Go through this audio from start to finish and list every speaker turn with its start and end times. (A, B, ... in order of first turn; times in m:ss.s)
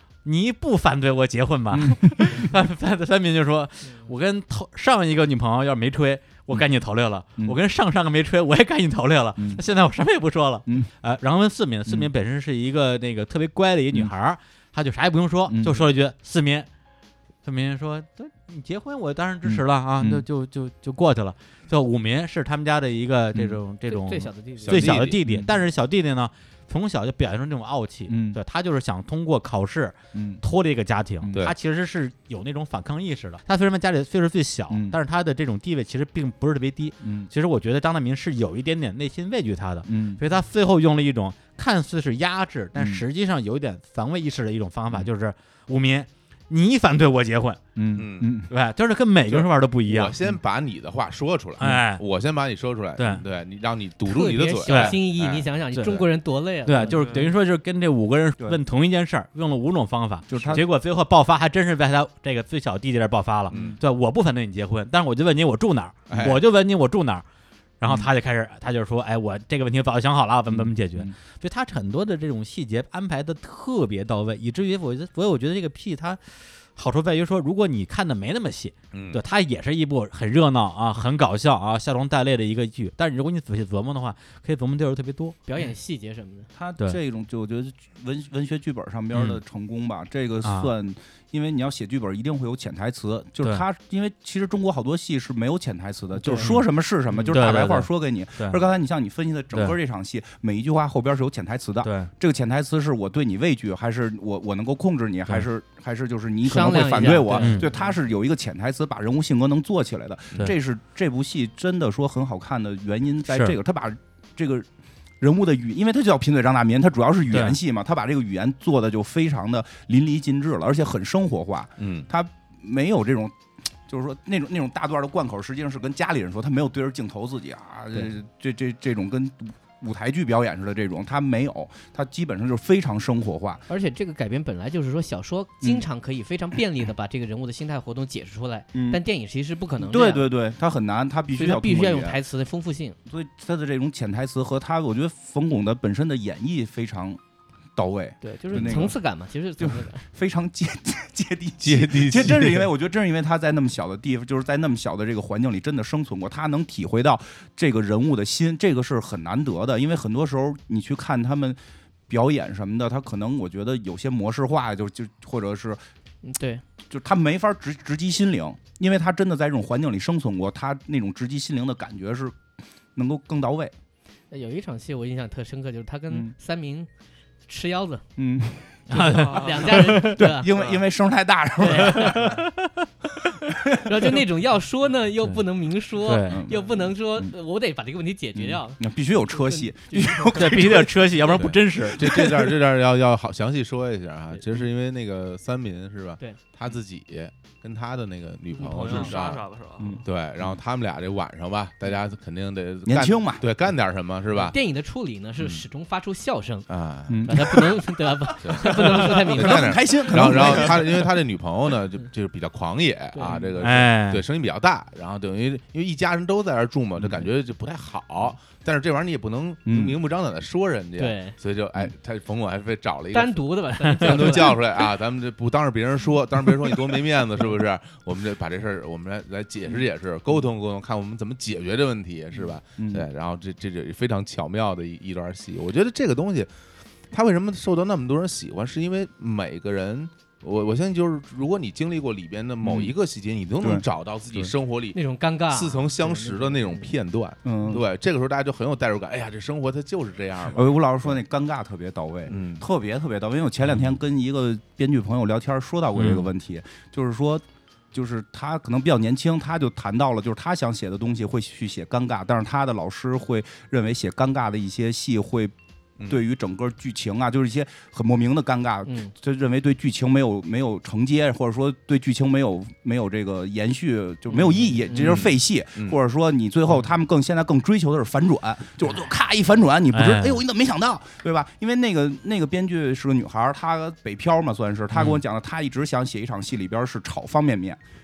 0:00.2-0:16.7 A
0:01.7-0:02.5 B
0:09.4-0:09.6 B
0:15.5-0:15.8 B
0:17.4-0:47.6 A
0:19.4-0:20.2 B
0:23.9-0:24.8 C
0:24.6-0:25.2 D
0:25.2-0:25.5 B
0:28.1-0:28.4 B
0:30.1-0:30.4 B
0:31.2-0:31.5 B
0:34.7-0:35.0 B
0:37.0-0:37.3 B
0:39.8-0:40.2 B
0:42.7-0:43.0 B
0:47.8-0:48.5 B
0:47.9-0:48.4 D
0:48.5-0:50.2 A
0:49.2-0:55.5 D
0:51.6-0:52.0 A
0:53.0-0:53.2 A
0:54.0-0:57.3 C
0:54.7-0:55.0 A
0:55.7-0:56.0 A
0:56.6-1:07.2 A
0:56.9-0:57.3 E
1:00.3-1:00.6 B
1:03.5-1:03.8 B
1:03.5-1:03.8 D
1:06.1-1:06.4 D
1:07.8-1:25.4 A
1:10.5-1:11.1 B
1:18.9-1:19.2 D
1:25.4-1:26.5 C
1:26.6-1:54.7 B
1:29.1-1:29.4 A
1:30.4-1:30.7 A
1:36.2-1:36.5 C
1:36.4-1:38.6 A
1:41.8-1:42.1 A
1:46.4-1:47.8 C
1:47.4-1:47.7 A
1:53.3-1:53.5 A
1:55.2-2:13.6 B
1:57.3-1:57.6 A
2:01.8-2:02.0 D
2:13.7-2:20.3 C
2:15.6-2:15.8 B
2:18.7-2:19.0 B
2:19.8-2:22.2 B
2:21.3-2:23.0 C
2:23.0-2:27.2 B
2:27.8-2:29.0 B
2:28.2-2:30.0 C
2:29.6-2:45.8 B
2:31.6-2:32.7 D
2:46.2-2:46.6 C
2:46.9-2:52.4 B
2:53.0-2:53.7 B
2:54.3-2:56.9 C
2:56.1-2:56.3 B
2:57.5-2:58.0 C
2:58.2-2:58.8 B
2:58.9-3:00.3 A
2:58.9-3:00.5 C
2:59.1-2:59.6 E
2:59.6-3:02.4 B
3:00.5-3:00.8 E
3:01.6-3:02.4 C
3:01.9-3:02.9 A
3:03.6-3:04.2 B
3:03.8-3:10.4 C
3:06.0-3:06.4 A
3:06.3-3:07.3 B
3:08.4-3:11.5 B
3:10.4-3:12.5 A
3:11.3-3:19.4 D
3:18.6-3:19.1 C
3:18.6-3:19.9 E
3:19.8-3:20.6 B
3:20.0-3:24.6 D
3:22.8-3:23.5 B
3:24.3-3:26.7 C
3:25.4-3:25.6 D
3:26.7-3:27.7 D
3:27.1-3:27.7 B
3:27.2-3:29.8 C
3:28.4-3:43.5 D
3:28.6-3:31.1 B
3:30.4-3:30.6 C
3:33.1-3:33.4 C
3:33.2-3:33.5 B
3:33.6-3:34.2 A
3:37.0-3:37.3 B
3:39.6-3:40.0 B
3:41.0-3:41.3 C
3:43.1-3:44.6 C
3:44.0-3:56.5 D
3:52.8-3:53.1 B
3:57.1-4:05.0 D
4:02.6-4:02.9 B
4:03.6-4:04.5 B
4:04.9-4:06.9 C
4:05.5-4:10.8 D
4:07.4-4:07.8 B
4:10.5-4:25.5 B
4:12.3-4:12.6 D
4:13.6-4:14.0 D
4:16.0-4:16.3 A
4:26.0-4:47.8 B
4:28.8-4:29.1 C
4:34.3-4:35.1 C
4:34.9-4:36.0 D
4:39.9-4:40.4 A
4:44.9-4:45.2 A